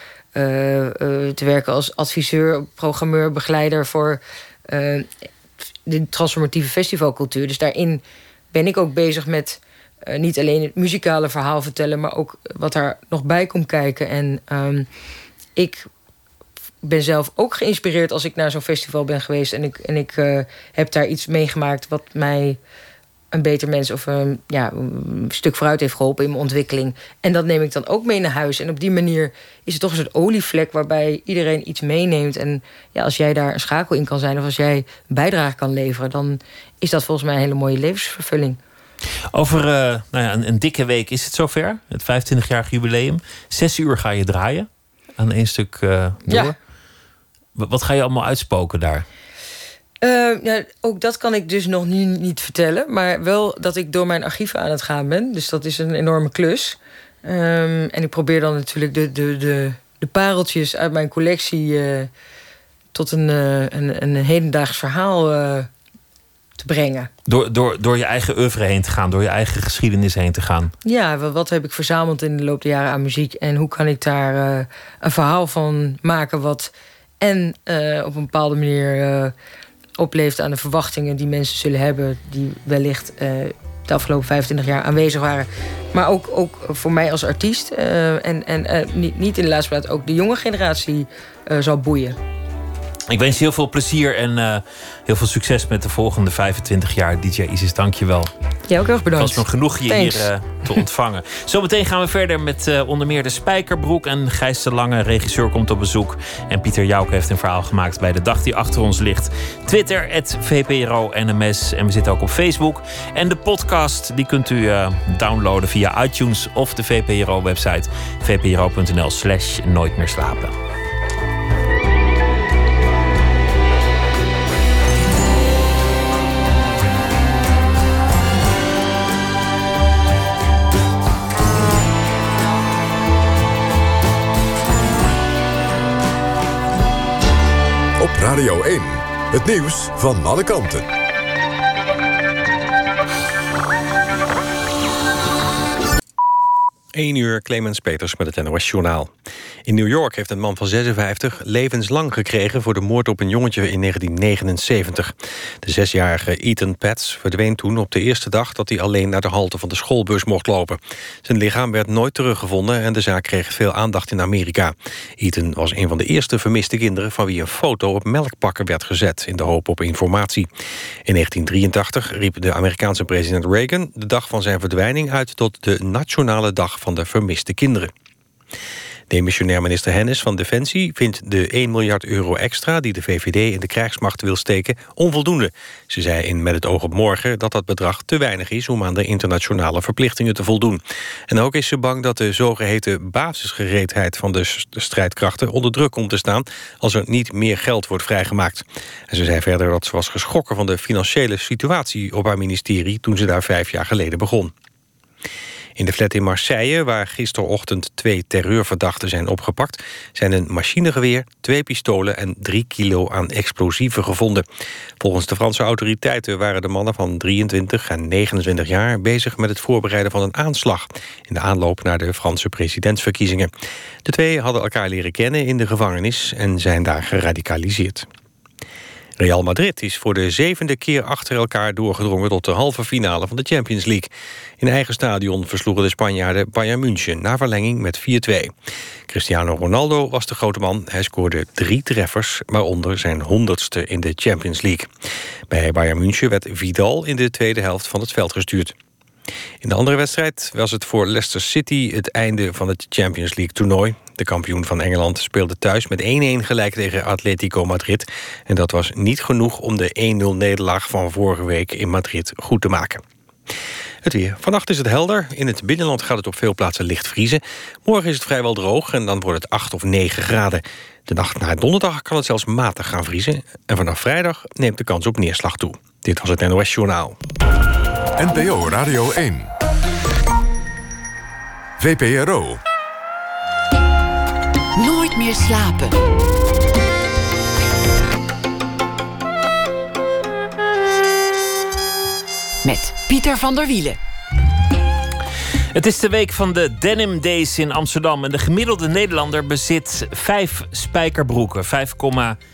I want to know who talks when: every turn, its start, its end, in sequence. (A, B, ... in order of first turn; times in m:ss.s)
0:00.4-0:05.1 A
0:05.8-0:08.0 A
0:08.5-0:14.9 A
0:15.6-0:15.9 A
0:16.8-0:22.6 A
0:23.3-0:38.6 A
0:39.3-0:46.5 B
0:46.3-0:46.5 A
0:47.6-0:49.0 B
0:50.0-1:02.1 A
1:02.9-1:05.7 A
1:06.6-1:07.1 A
1:07.2-1:10.7 B
1:10.8-1:19.3 A
1:20.0-1:32.2 A
1:33.1-1:38.3 B
1:38.7-1:40.3 A
1:39.2-2:00.5 B
2:18.0-2:20.8 C
2:26.9-2:29.1 D
2:29.6-2:50.5 D
2:51.0-2:57.9 D
2:59.1-3:24.5 D
3:25.8-3:34.4 D
3:35.0-3:43.5 D
3:44.0-3:48.0 D
3:49.2-3:58.5 D
3:59.1-4:04.9 D
4:05.5-4:08.7 D
4:09.6-4:23.0 D
4:24.0-4:37.2 D
4:38.2-4:39.5 C
4:41.8-4:42.6 C
4:44.8-4:46.0 E
4:52.6-4:54.0 E
4:55.7-5:02.4 B